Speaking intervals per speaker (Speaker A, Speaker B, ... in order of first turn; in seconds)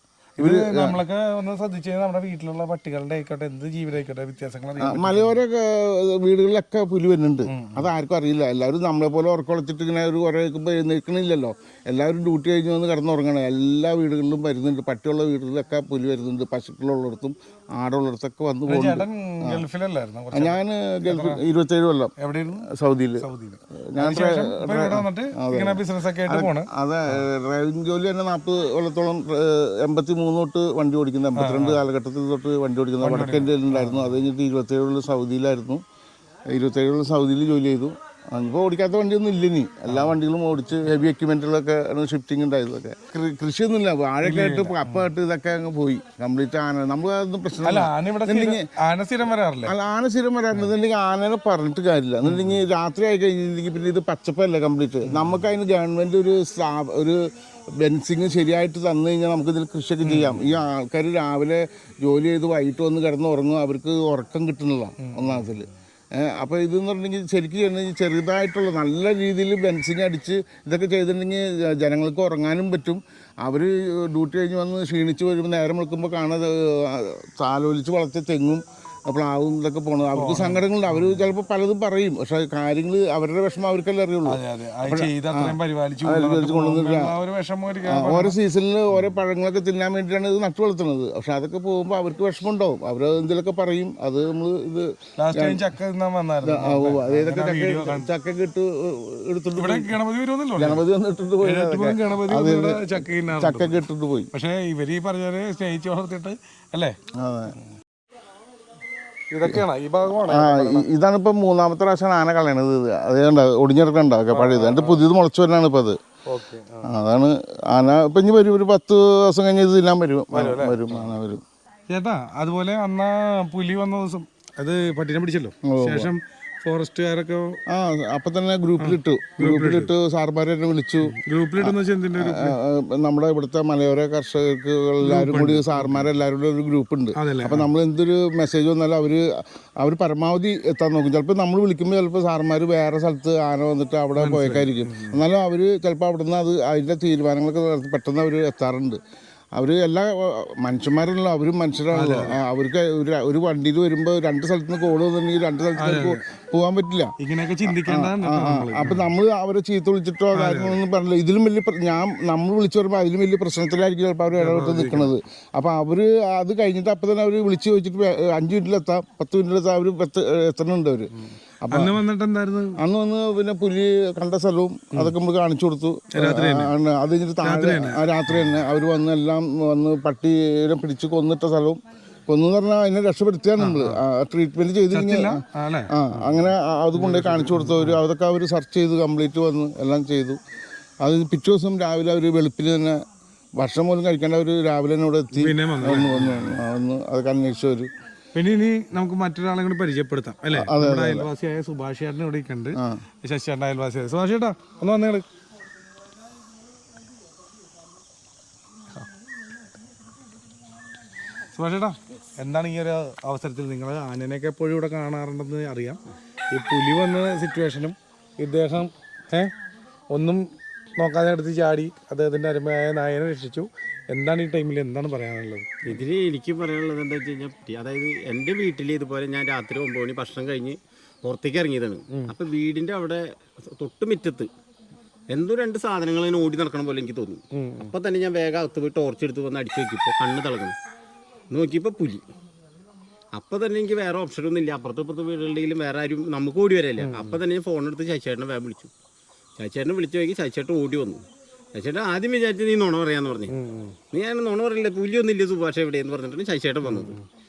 Speaker A: 0.4-5.4, 7.5-7.9, 18.7-21.4, 22.2-22.7, 23.2-27.3, 31.4-31.8, 33.0-34.1, 39.9-40.1, 44.2-45.1, 47.6-49.8, 52.2-52.6, 55.0-55.4, 60.0-60.6, 65.0-65.7, 80.2-81.2, 84.2-88.4, 88.9-89.2, 95.2-98.1, 99.6-100.8, 101.4-107.0, 109.3-110.9, 114.3-115.0, 116.2-116.9, 120.3-121.1, 121.9-127.6, 128.8-129.9, 131.0-132.6, 135.0-136.1, 137.2-137.7, 144.2-145.2, 151.9-152.4, 155.8-156.2, 157.2-159.1, 160.3-160.8, 164.4-165.1, 171.2-172.8, 176.1-176.7, 177.4-178.1, 183.6-184.0, 184.9-188.0, 195.3-196.6, 198.3-205.2, 211.6-216.0, 216.5-219.5, 220.1-226.0, 237.5-237.9, 247.0-247.4, 253.5-254.0, 256.9-257.2
Speaker B: 0.4-1.0, 4.8-19.6, 20.3-35.8, 36.5-48.7, 49.6-57.2, 57.8-87.2, 87.8-95.7, 96.4-100.0, 100.6-104.3, 107.1-107.6, 109.5-116.0, 116.8-121.4, 125.7-126.1, 127.7-149.0, 149.6-157.1, 157.6-171.1, 171.6-172.0, 172.8-190.4, 191.0-193.0, 193.6-197.9, 200.5-201.3, 202.8-203.0
Speaker C: 225.9-234.5, 235.3-240.8, 241.5-242.2, 243.3-248.9, 249.6-251.2, 251.7-253.5, 254.1-257.2